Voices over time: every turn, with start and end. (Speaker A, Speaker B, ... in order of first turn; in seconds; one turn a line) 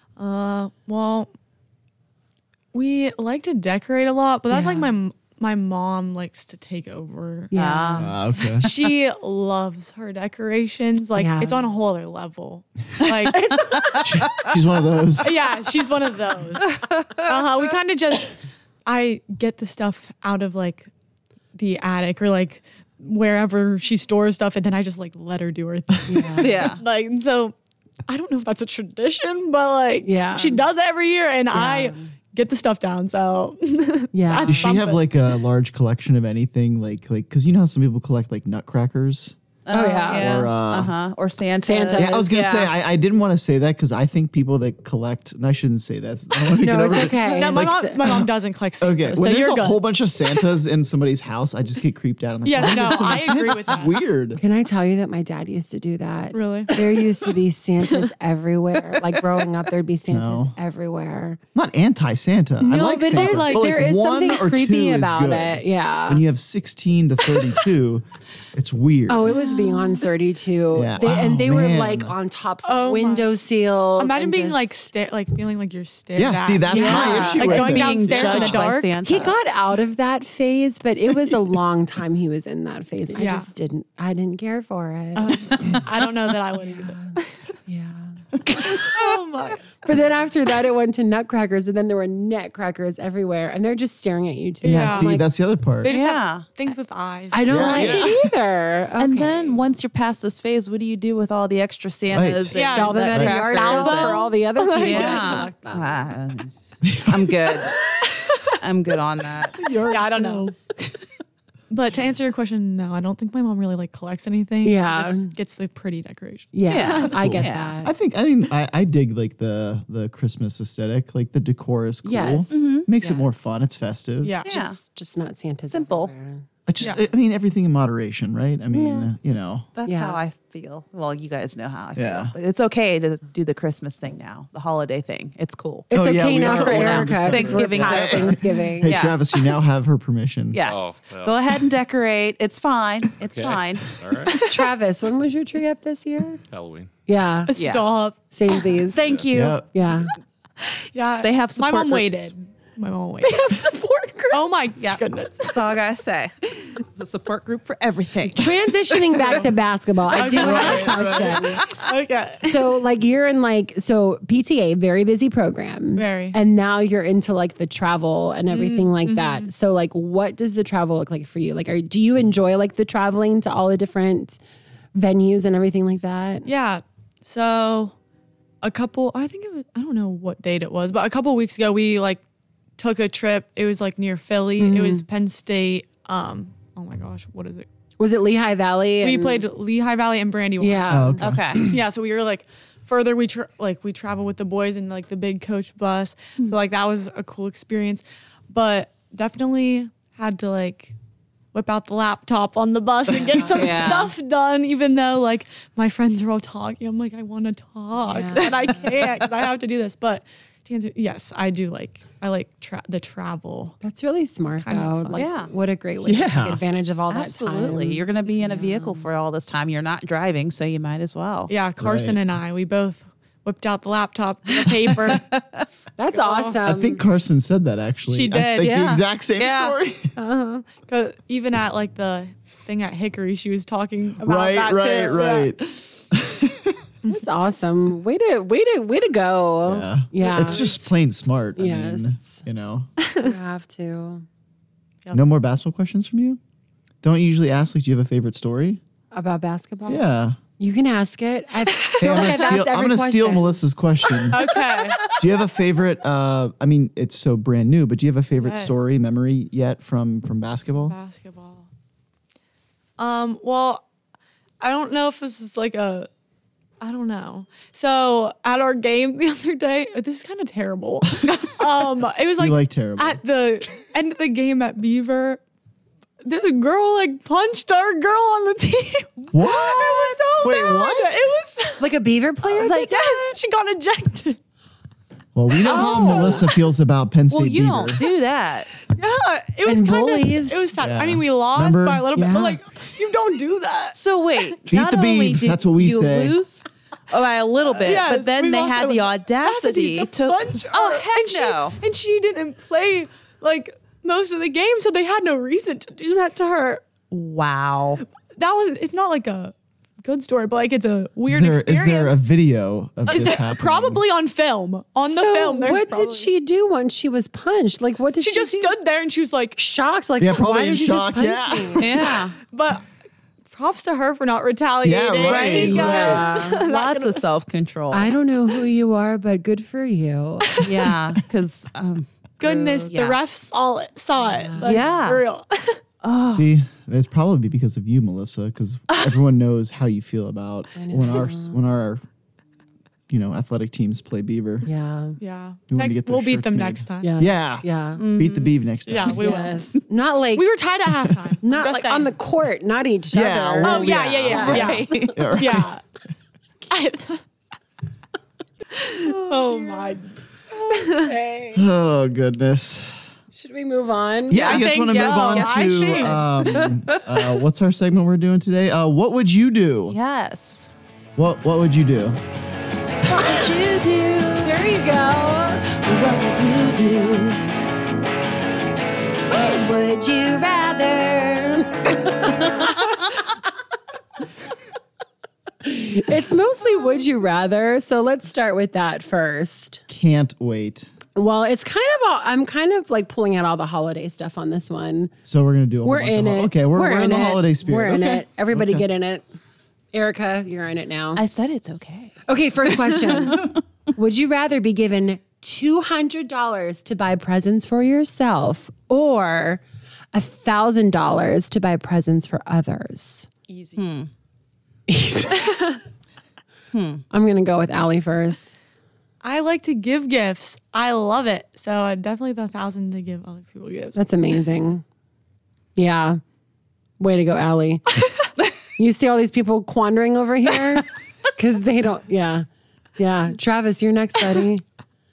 Speaker A: 0.2-1.3
Speaker A: 2.7-8.0
Speaker B: 4.5-4.9
Speaker B: 7.5-8.1
Speaker C: 7.5-8.1
Speaker D: 8.0-8.7
Speaker A: 8.6-13.6
Speaker B: 11.2-11.7
Speaker C: 13.1-14.5
Speaker B: 13.3-13.8
Speaker D: 14.0-15.3
Speaker A: 15.2-20.9
Speaker C: 16.7-17.6
Speaker A: 21.5-27.5
Speaker B: 26.1-26.7
Speaker C: 26.4-26.8
Speaker A: 28.1-35.1
Speaker B: 30.0-30.6
Speaker B: 31.5-32.1
Speaker B: 34.1-34.7
Speaker D: 34.4-39.4
Speaker C: 39.6-42.7
Speaker B: 39.7-40.5
Speaker D: 40.1-40.9
Speaker B: 41.6-42.3
Speaker D: 42.0-48.3
Speaker B: 46.5-48.2
Speaker A: 47.2-49.8
Speaker D: 48.8-54.4
Speaker A: 52.4-54.0
Speaker B: 52.6-53.0
Speaker B: 54.4-61.4
Speaker A: 56.3-57.3
Speaker D: 60.1-60.5
Speaker D: 61.5-69.3
Speaker B: 62.6-66.2
Speaker A: 62.7-63.7
Speaker B: 69.1-74.7
Speaker A: 69.5-69.9
Speaker D: 70.7-72.1
Speaker A: 72.6-73.3
Speaker A: 74.0-79.0
Speaker D: 76.2-78.7
Speaker B: 76.7-77.6
Speaker C: 76.7-79.4
Speaker B: 79.0-85.8
Speaker A: 83.2-83.5
Speaker A: 85.2-87.2
Speaker B: 86.6-89.2
Speaker A: 88.5-89.8
Speaker B: 89.8-95.2
Speaker A: 94.6-95.1
Speaker D: 94.6-95.9
Speaker A: 95.8-98.1
Speaker C: 95.8-96.5
Speaker B: 97.3-99.6
Speaker D: 97.5-98.3
Speaker C: 99.0-107.9
Speaker D: 102.1-103.3
Speaker B: 102.5-106.0
Speaker A: 102.5-105.5
Speaker D: 106.8-107.1
Speaker A: 107.9-108.4
Speaker C: 108.6-109.6
Speaker D: 109.6-110.6
Speaker A: 109.9-110.6
Speaker A: 111.7-117.1
Speaker B: 114.6-115.3
Speaker B: 116.5-117.9
Speaker C: 116.7-117.7
Speaker D: 117.0-124.3
Speaker B: 122.0-123.6
Speaker C: 122.5-122.9
Speaker A: 124.2-124.5
Speaker C: 124.4-124.8
Speaker B: 124.4-126.5
Speaker C: 125.7-126.1
Speaker D: 126.7-129.7
Speaker B: 128.7-129.1
Speaker C: 129.8-139.6
Speaker B: 129.8-130.2
Speaker D: 131.9-132.3
Speaker B: 135.9-138.9
Speaker D: 135.9-140.6
Speaker C: 140.5-144.0
Speaker E: 140.6-141.3
Speaker E: 143.3-144.4
Speaker A: 144.3-144.7
Speaker B: 144.4-146.4
Speaker E: 146.5-146.9
Speaker B: 147.1-147.5
Speaker A: 147.5-148.6
Speaker C: 147.6-147.9
Speaker B: 148.3-149.0
Speaker C: 148.9-149.6
Speaker D: 149.3-149.7
Speaker B: 149.7-150.1
Speaker A: 150.6-153.8
Speaker C: 151.2-152.3
Speaker A: 154.3-155.7
Speaker C: 154.8-159.2
Speaker B: 158.3-161.7
Speaker A: 159.2-159.4
Speaker A: 160.1-162.7
Speaker C: 160.2-160.9
Speaker D: 160.2-161.6
Speaker B: 162.4-174.4
Speaker A: 165.9-166.4
Speaker A: 168.5-169.5
Speaker B: 174.9-176.5
Speaker A: 176.4-177.9
Speaker A: 178.6-182.2
Speaker A: 182.8-187.7
Speaker B: 184.6-185.0
Speaker B: 188.0-189.4
Speaker A: 189.0-200.9
Speaker B: 190.6-191.3
Speaker D: 190.9-191.7
Speaker C: 191.2-191.7
Speaker A: 201.5-213.8
Speaker B: 203.2-204.1
Speaker C: 203.5-204.1
Speaker B: 208.1-208.9
Speaker C: 208.4-209.1
Speaker B: 213.8-219.1
Speaker A: 214.6-215.3
Speaker C: 215.1-215.5
Speaker D: 216.0-216.6
Speaker C: 217.1-221.5
Speaker A: 221.5-225.3
Speaker D: 221.8-222.2
Speaker C: 224.6-225.6
Speaker B: 226.0-227.0
Speaker A: 226.1-226.6
Speaker D: 226.6-230.1
Speaker A: 228.1-228.8
Speaker C: 228.6-229.8
Speaker A: 230.2-235.7
Speaker D: 234.2-236.8
Speaker B: 237.1-240.8
Speaker D: 239.6-242.9
Speaker A: 240.2-240.8
Speaker B: 241.6-242.4
Speaker A: 243.0-243.3
Speaker B: 243.2-244.2
Speaker D: 245.1-246.4
Speaker D: 247.0-248.8
Speaker B: 249.1-250.0
Speaker D: 249.9-250.4
Speaker B: 250.6-253.6
Speaker D: 252.0-254.4
Speaker A: 254.3-255.1
Speaker D: 255.0-260.9
Speaker A: 258.4-258.8
Speaker A: 260.8-261.7
Speaker A: 263.0-263.8
Speaker A: 264.6-266.1
Speaker A: 266.8-275.4
Speaker D: 272.4-273.2
Speaker A: 276.2-281.9
Speaker D: 279.3-281.2
Speaker B: 281.8-283.3
Speaker A: 282.5-284.4
Speaker C: 282.6-282.9
Speaker D: 285.3-288.0
Speaker A: 285.6-286.5
Speaker C: 285.7-286.4
Speaker C: 287.3-288.7
Speaker A: 288.8-294.0
Speaker B: 289.6-290.8
Speaker D: 290.8-292.1
Speaker B: 292.1-292.6
Speaker C: 293.9-301.8
Speaker D: 294.7-296.4
Speaker A: 297.7-306.8
Speaker C: 307.1-308.0
Speaker A: 308.3-312.1
Speaker D: 311.3-314.0
Speaker A: 313.1-316.3
Speaker B: 315.0-318.8
Speaker A: 318.2-319.6
Speaker B: 319.6-322.0
Speaker D: 320.2-322.0
Speaker C: 321.8-322.4
Speaker A: 322.5-322.9
Speaker A: 323.5-327.2
Speaker D: 324.8-326.3
Speaker B: 325.3-326.6
Speaker C: 325.3-328.1
Speaker B: 327.9-330.7
Speaker C: 330.6-333.2
Speaker A: 332.4-335.8
Speaker B: 332.4-332.9
Speaker B: 334.2-334.9
Speaker C: 334.6-335.2
Speaker C: 336.0-336.5
Speaker D: 336.3-342.0
Speaker B: 340.8-341.6
Speaker D: 343.1-344.7
Speaker B: 344.6-345.2
Speaker A: 345.2-347.1
Speaker D: 345.7-349.2
Speaker B: 347.0-348.0
Speaker C: 348.0-348.5
Speaker A: 348.9-349.7
Speaker B: 349.0-350.5
Speaker A: 350.3-352.1
Speaker B: 351.4-355.1
Speaker D: 353.1-355.7
Speaker A: 353.6-355.8
Speaker C: 354.3-355.2
Speaker A: 356.7-357.2
Speaker A: 358.7-360.1
Speaker B: 359.0-360.0
Speaker B: 360.5-361.7
Speaker A: 360.7-361.1
Speaker D: 361.5-362.9
Speaker B: 363.3-364.6
Speaker D: 364.3-369.9
Speaker A: 364.3-366.2
Speaker C: 364.4-367.0
Speaker C: 369.9-370.7
Speaker D: 371.2-372.2
Speaker C: 373.1-374.6
Speaker B: 374.4-377.4
Speaker C: 375.9-377.3
Speaker B: 379.3-383.0
Speaker B: 385.6-389.8
Speaker D: 389.9-390.9
Speaker B: 391.1-395.1
Speaker D: 395.2-398.8
Speaker B: 395.8-399.2
Speaker B: 399.9-401.2
Speaker C: 401.1-402.2
Speaker B: 402.3-409.6
Speaker C: 402.9-403.5
Speaker B: 410.1-413.3
Speaker A: 413.5-413.8
Speaker C: 413.8-414.1
Speaker B: 414.9-415.7
Speaker C: 416.7-417.0
Speaker B: 417.1-418.5
Speaker A: 419.2-424.0
Speaker B: 423.9-424.8
Speaker B: 425.8-426.2
Speaker B: 427.0-428.0
Speaker B: 428.8-432.5
Speaker B: 433.0-434.6